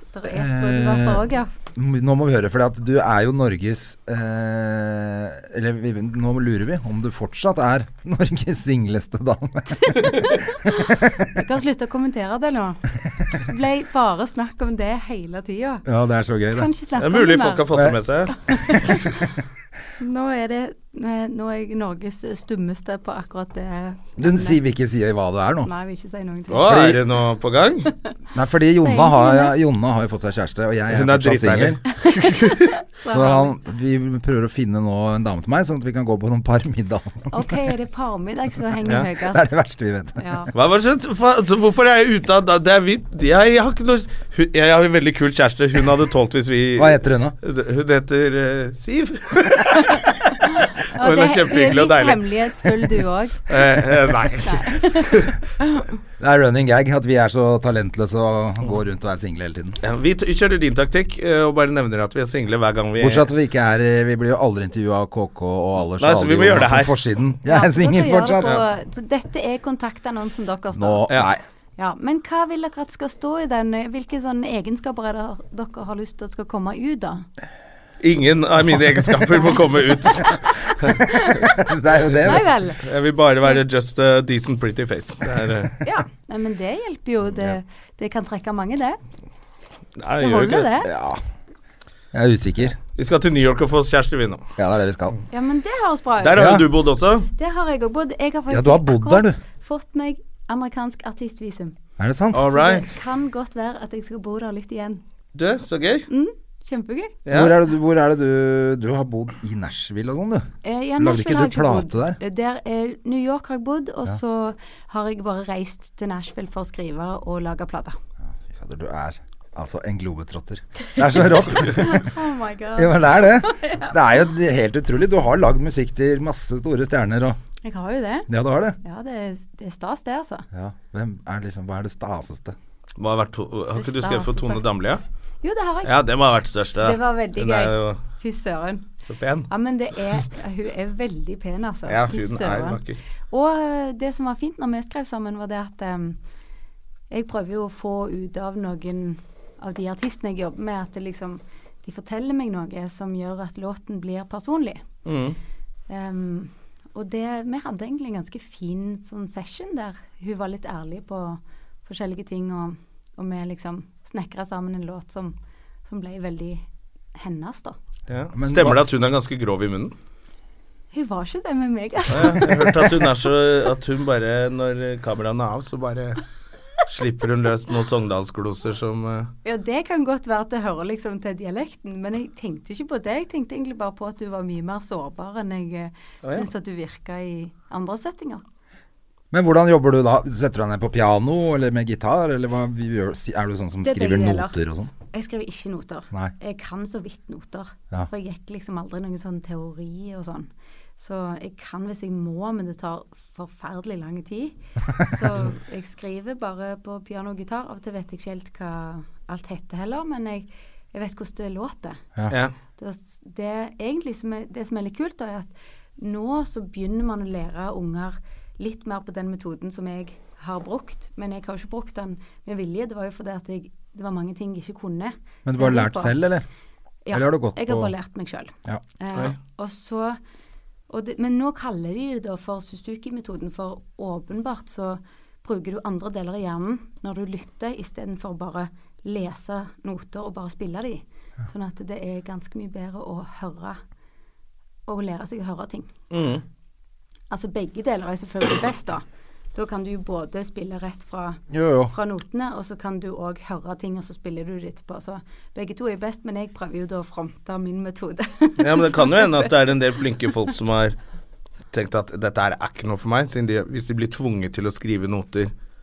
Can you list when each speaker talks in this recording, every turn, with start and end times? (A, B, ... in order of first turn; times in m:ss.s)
0:00.1-0:01.5 A
0:00.3-0:11.3 B
0:09.8-0:15.8 A
0:15.8-0:16.7 B
0:16.5-0:17.7 A
0:17.0-0:18.8 C
0:18.4-0:19.3 A
0:20.0-0:24.6 A
0:24.2-0:25.7 B
0:25.6-0:26.9 A
0:26.5-0:27.9 C
0:26.6-0:27.0 B
0:28.3-0:31.8 B
0:28.8-0:29.5 A
0:30.9-0:32.7 C
0:32.0-0:33.5 A
0:33.0-0:37.7 B
0:37.3-0:39.4 A
0:38.9-0:40.5 B
0:40.2-0:40.5 A
0:40.5-0:52.9 C
0:46.8-0:47.4 B
0:49.7-0:53.6 A
0:53.5-0:55.4 C
0:54.4-0:55.9 A
0:56.2-0:59.8 B
0:59.8-1:03.2 C
1:03.0-1:08.6 B
1:06.0-1:06.9 C
1:07.4-1:11.1 A
1:08.4-1:08.6 C
1:10.7-1:11.4 B
1:11.8-1:17.2 A
1:18.0-1:21.1 C
1:20.1-1:22.8 A
1:21.6-1:22.5 B
1:22.8-1:25.7 C
1:25.8-1:29.0 A
1:30.0-1:30.7 C
1:30.2-1:30.9 A
1:30.8-1:31.2 B
1:32.1-1:32.8 B
1:33.0-1:34.4 C
1:34.6-1:35.2 B
1:35.3-1:36.6 A
1:36.2-1:37.3 C
1:36.3-1:36.7 B
1:37.4-1:41.7 A
1:38.5-1:39.4 B
1:42.0-1:42.4 B
1:42.3-1:42.9 C
1:42.3-1:45.0 A
1:45.3-1:46.0 C
1:46.1-1:47.2 A
1:47.2-1:47.6 C
1:47.3-1:50.5 B
1:50.6-1:58.0 A
1:51.0-1:52.2 B
1:58.3-2:02.1 B
2:01.7-2:04.0 A
2:02.8-2:07.4 B
2:07.6-2:08.3 A
2:08.3-2:08.8 B
2:08.8-2:10.4 A
2:10.5-2:12.6 B
2:13.0-2:15.0 C
2:13.8-2:14.6 A
2:15.4-2:15.9 A
2:15.8-2:18.0 C
2:16.8-2:18.9 A
2:19.1-2:19.5 C
2:19.5-2:26.2 A
2:21.9-2:23.0 C
2:27.1-2:34.8 A
2:35.0-2:35.4 C
2:35.9-2:45.3 A
2:45.8-2:47.8 A
2:48.1-2:49.9 C
2:48.3-2:48.9 B
2:50.9-2:52.7 A
2:52.1-2:56.2 C
2:56.8-2:59.3 C
2:59.4-3:08.4 A
3:09.3-3:14.9 B
3:13.8-3:14.6 A
3:15.1-3:32.0 A
3:32.8-3:46.2 A
3:45.4-3:46.4 B
3:47.0-3:50.2 A
3:47.1-3:47.9 B
3:50.9-4:03.8 A
4:04.9-4:05.9 A
4:06.1-4:06.4 C
4:07.3-4:09.0 A
4:09.5-4:19.5 A
4:11.5-4:11.9 B
4:18.6-4:21.0 C
4:21.7-4:25.5 C